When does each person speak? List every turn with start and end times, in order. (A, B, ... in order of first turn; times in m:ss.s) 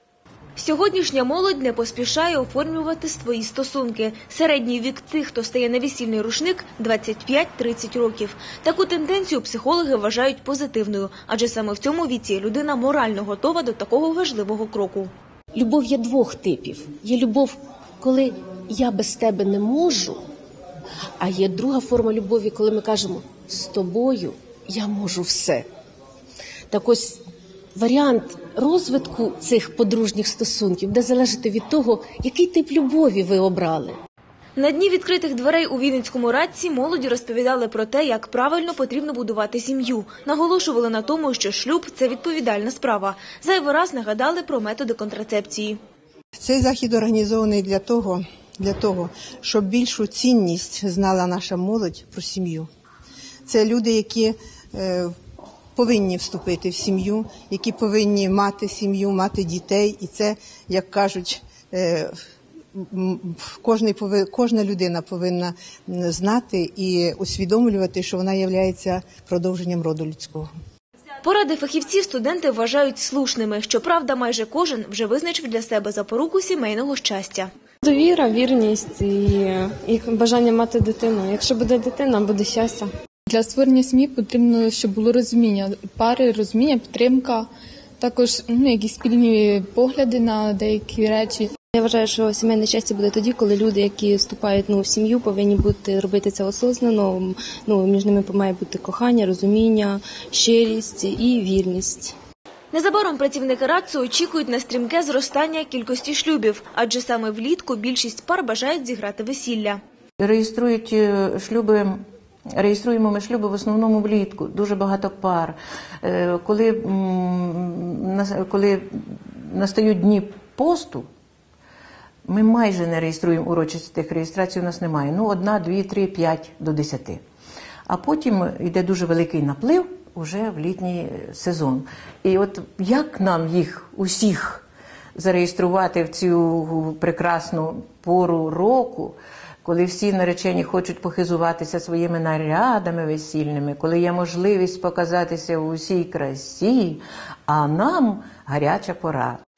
0:00.6-0:15.1 A
0:15.5-0:20.2 B
0:21.2-0:25.6 B
0:26.7-0:27.2 B
0:27.8-0:34.0 B
0:34.6-0:45.8 A
0:46.4-0:52.7 C
0:53.4-0:55.1 C
0:55.7-1:02.1 C
1:02.7-1:10.5 C
1:11.2-1:17.5 A
1:17.8-1:22.9 D
1:23.3-1:27.5 E
1:28.0-1:31.5 E
1:31.7-1:42.1 F
1:42.7-1:49.8 A
1:50.2-1:52.0 G
1:52.6-2:01.1 G
2:02.3-2:07.2 G
2:07.9-2:14.6 G
2:15.2-2:29.4 G